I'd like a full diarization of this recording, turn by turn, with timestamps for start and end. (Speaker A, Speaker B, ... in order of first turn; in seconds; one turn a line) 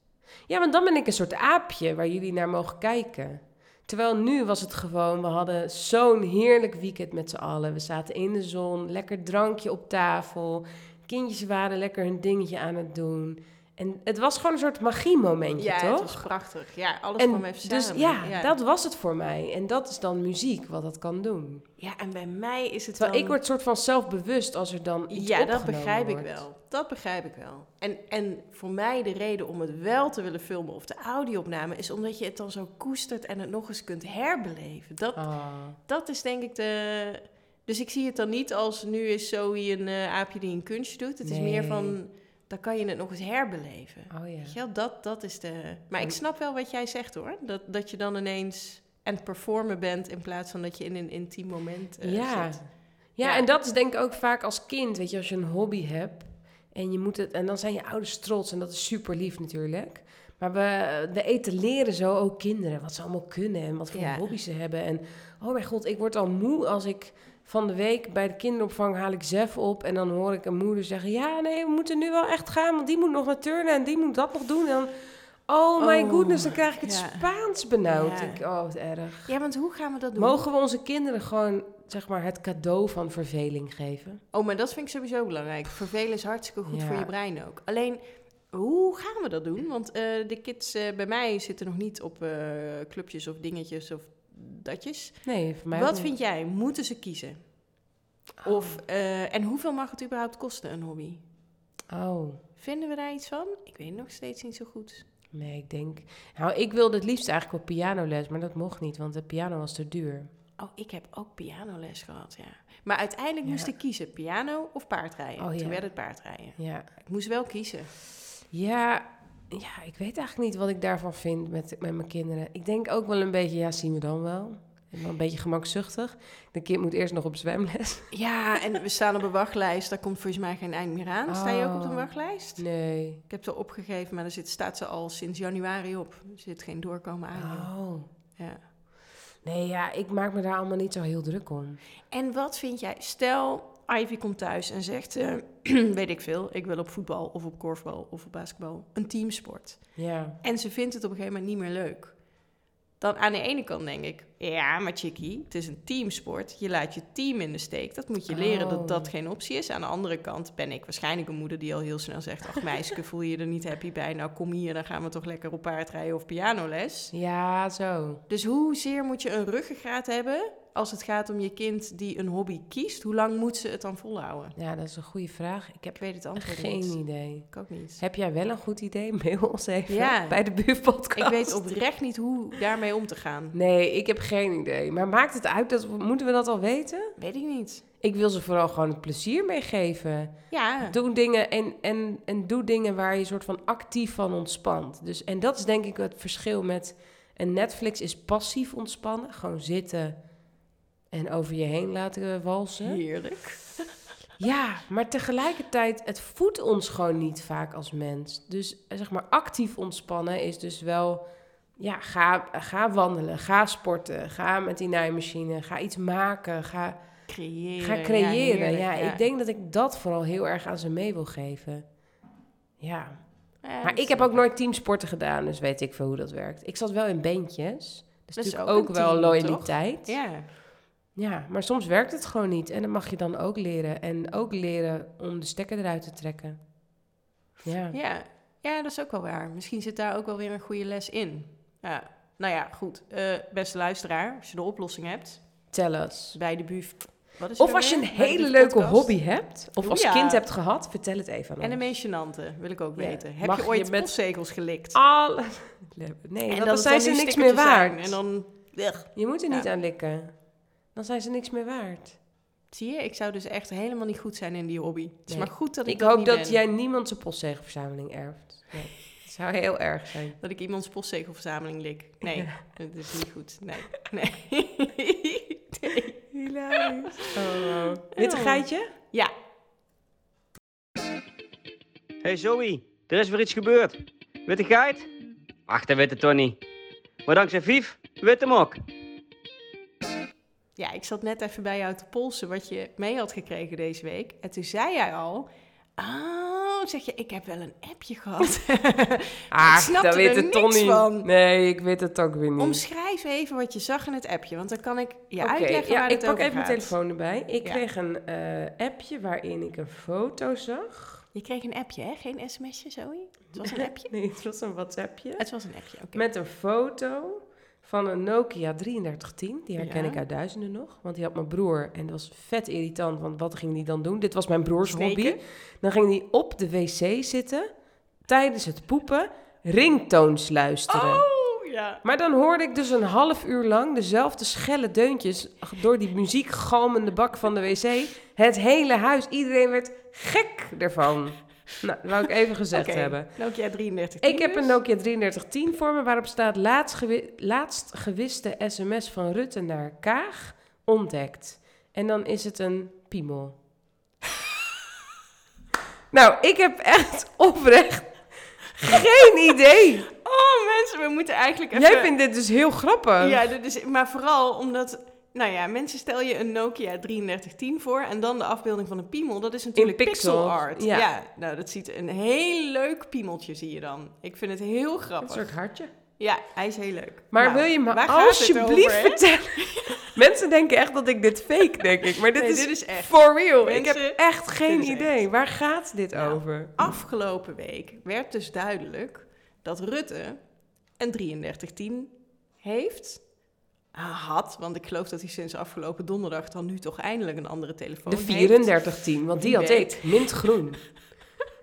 Speaker A: 0.5-16.2
Speaker B: 15.6-18.5
Speaker A: 17.2-21.6
Speaker B: 21.8-23.4
Speaker A: 23.0-26.4
Speaker B: 25.1-52.7
Speaker A: 35.1-35.8
Speaker A: 41.2-42.0
Speaker A: 44.1-44.5
Speaker A: 52.0-79.3
Speaker B: 53.2-53.5
Speaker B: 63.9-64.3
Speaker B: 75.8-77.3
Speaker B: 77.8-78.4
Speaker B: 79.2-80.4
Speaker A: 80.2-84.2
Speaker B: 84.3-97.5
Speaker A: 86.7-87.1
Speaker A: 95.2-96.1
Speaker B: 98.4-101.2
Speaker A: 98.4-98.8
Speaker A: 101.9-102.4
Speaker B: 102.6-105.0
Speaker A: 105.3-110.3
Speaker B: 110.6-117.9
Speaker A: 113.4-113.7
Speaker A: 115.4-115.8
Speaker A: 116.6-116.9
Speaker A: 118.5-128.1
Speaker B: 128.1-132.6
Speaker A: 131.3-133.2
Speaker B: 133.3-137.7
Speaker A: 137.3-138.1
Speaker B: 138.4-138.6
Speaker A: 139.4-141.8
Speaker B: 142.1-149.8
Speaker A: 150.0-150.4
Speaker B: 150.4-152.2
Speaker B: 153.0-167.1
Speaker A: 158.3-159.1
Speaker A: 167.1-168.2
Speaker B: 168.3-174.5
Speaker A: 174.6-181.6
Speaker B: 175.9-177.0
Speaker B: 177.5-178.0
Speaker B: 179.9-180.4
Speaker B: 181.1-183.6
Speaker A: 183.5-187.1
Speaker B: 187.2-187.8
Speaker A: 188.0-200.2
Speaker B: 190.5-191.0
Speaker A: 201.1-203.0
Speaker B: 202.8-203.9
Speaker A: 204.4-211.2
Speaker A: 211.8-217.0
Speaker B: 217.3-219.2
Speaker A: 217.8-221.8
Speaker A: 222.8-230.2
Speaker B: 223.6-224.4
Speaker B: 228.3-230.5
Speaker A: 231.1-236.6
Speaker A: 237.6-237.9
Speaker B: 237.9-245.6
Speaker A: 245.7-246.4
Speaker B: 246.3-249.2
Speaker A: 247.6-251.9
Speaker B: 249.8-250.4
Speaker B: 251.6-255.0
Speaker A: 252.9-254.1
Speaker A: 254.9-258.2
Speaker B: 256.5-259.7
Speaker A: 259.1-260.4
Speaker A: 260.9-262.1
Speaker B: 262.7-266.6
Speaker A: 265.3-270.4
Speaker B: 270.4-276.2
Speaker A: 272.2-272.5
Speaker A: 276.3-278.9
Speaker B: 276.7-279.3
Speaker C: 282.2-285.1
Speaker C: 285.7-286.6
Speaker C: 287.2-288.8
Speaker B: 290.8-301.3
Speaker A: 299.5-302.8
Speaker B: 302.6-306.9
Speaker A: 305.4-311.2
Speaker B: 311.3-314.1
Speaker A: 313.5-315.4
Speaker B: 315.4-316.2
Speaker A: 316.1-327.7
Speaker B: 319.8-320.2
Speaker B: 324.8-325.4
Speaker A: 328.3-331.2
Speaker B: 330.9-332.0
Speaker A: 332.0-343.3
Speaker B: 342.7-344.8
Speaker A: 344.2-353.6
Speaker A: 356.1-358.2
Speaker A: 358.8-360.1
Speaker B: 360.1-362.1
Speaker A: 361.7-363.4
Speaker B: 363.2-375.5
Speaker A: 369.8-371.1
Speaker A: 375.2-375.9
Speaker B: 376.2-380.1
Speaker A: 377.3-386.7
Speaker B: 382.3-385.2
Speaker B: 386.1-390.4
Speaker B: 391.0-393.2
Speaker B: 393.9-398.8
Speaker A: 398.1-400.8
Speaker B: 399.3-400.5